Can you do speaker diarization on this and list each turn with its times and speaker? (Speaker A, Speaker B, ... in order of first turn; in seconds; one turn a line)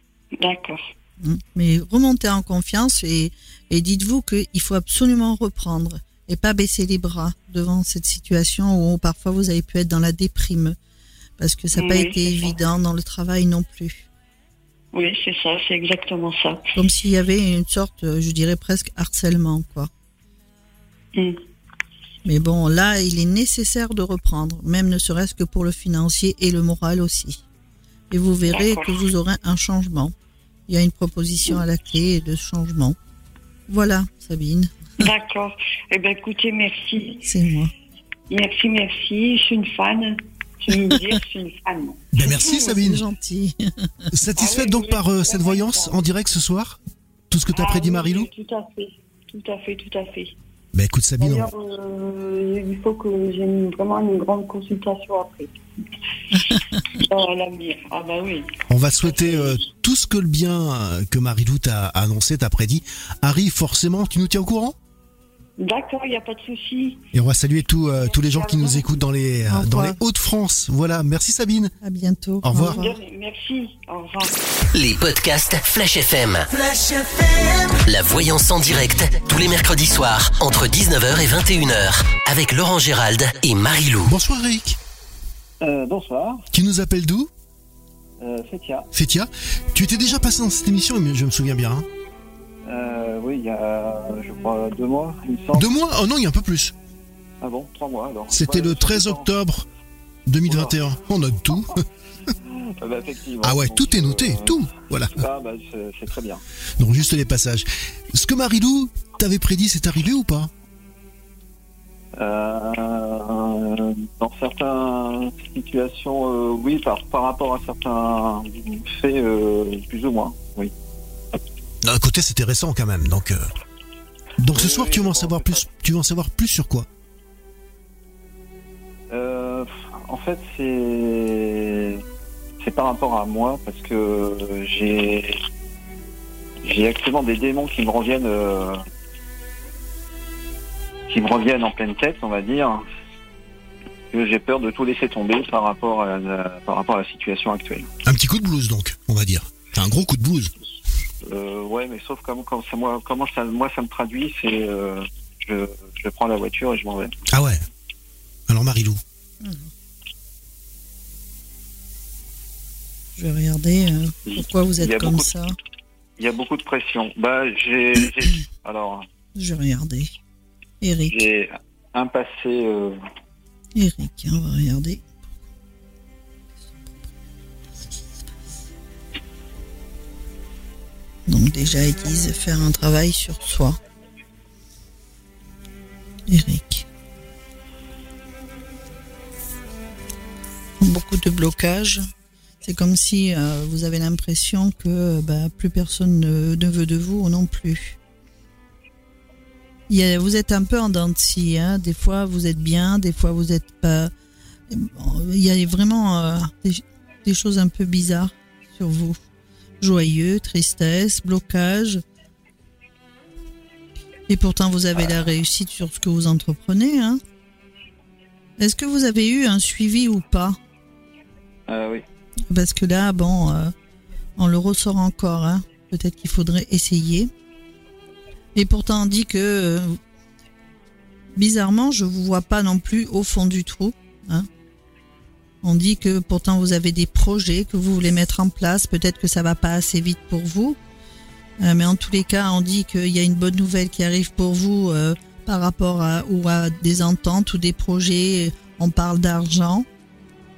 Speaker A: 0.4-0.9
Speaker B: 1.2-10.8
Speaker B: 11.4-14.1
Speaker A: 11.7-12.6
Speaker A: 14.9-16.8
Speaker B: 16.8-19.9
Speaker B: 22.2-27.4
Speaker B: 28.1-30.1
Speaker A: 28.4-29.0
Speaker B: 30.7-33.0
Speaker B: 33.7-34.9
Speaker A: 35.0-37.3
Speaker B: 37.2-37.7
Speaker A: 38.3-42.0
Speaker C: 42.1-43.0
Speaker B: 42.2-43.9
Speaker C: 44.1-46.8
Speaker A: 44.4-46.0
Speaker C: 47.3-48.3
Speaker A: 47.5-50.4
Speaker C: 50.7-51.5
Speaker A: 51.2-55.5
Speaker A: 56.5-59.6
Speaker C: 58.7-64.8
Speaker A: 65.6-67.1
Speaker C: 67.1-71.7
Speaker A: 68.0-69.0
Speaker B: 69.5-70.0
Speaker B: 71.8-73.0
Speaker C: 72.4-72.8
Speaker A: 72.5-74.3
Speaker D: 74.7-76.7
Speaker A: 76.8-77.4
Speaker D: 77.6-84.1
Speaker C: 84.1-84.8
Speaker E: 85.6-86.5
Speaker C: 86.5-87.3
Speaker E: 88.2-88.9
Speaker C: 88.9-91.8
Speaker E: 92.7-95.7
Speaker C: 95.5-96.7
Speaker E: 97.4-99.3
Speaker C: 98.3-99.6
Speaker C: 100.3-101.8
Speaker E: 100.5-100.8
Speaker E: 102.8-106.4
Speaker C: 103.4-105.2
Speaker C: 106.8-110.5
Speaker E: 112.2-120.7
Speaker C: 121.8-123.5
Speaker C: 124.4-126.9
Speaker E: 124.5-125.7
Speaker E: 129.1-132.0
Speaker E: 132.6-135.4
Speaker E: 136.6-138.8
Speaker E: 141.1-142.8
Speaker E: 144.1-147.9
Speaker C: 148.0-150.5
Speaker E: 151.2-157.1
Speaker C: 157.3-157.6
Speaker C: 158.5-159.0
Speaker B: 159.4-159.7
Speaker B: 163.2-165.6
Speaker E: 164.3-165.2
Speaker E: 166.2-169.0
Speaker B: 169.3-170.1
Speaker B: 170.8-171.2
Speaker E: 171.1-173.0
Speaker B: 173.7-175.0
Speaker B: 181.3-183.8
Speaker B: 186.3-186.8
Speaker B: 190.8-192.0
Speaker B: 192.6-198.0
Speaker B: 199.9-204.1
Speaker B: 204.7-209.2
Speaker B: 209.8-212.0
Speaker B: 214.3-217.2
Speaker B: 218.6-220.6
Speaker E: 221.7-222.0
Speaker B: 222.5-223.7
Speaker B: 224.4-227.3
Speaker B: 228.5-230.0
Speaker B: 231.3-234.5
Speaker B: 235.6-240.8
Speaker B: 241.6-249.9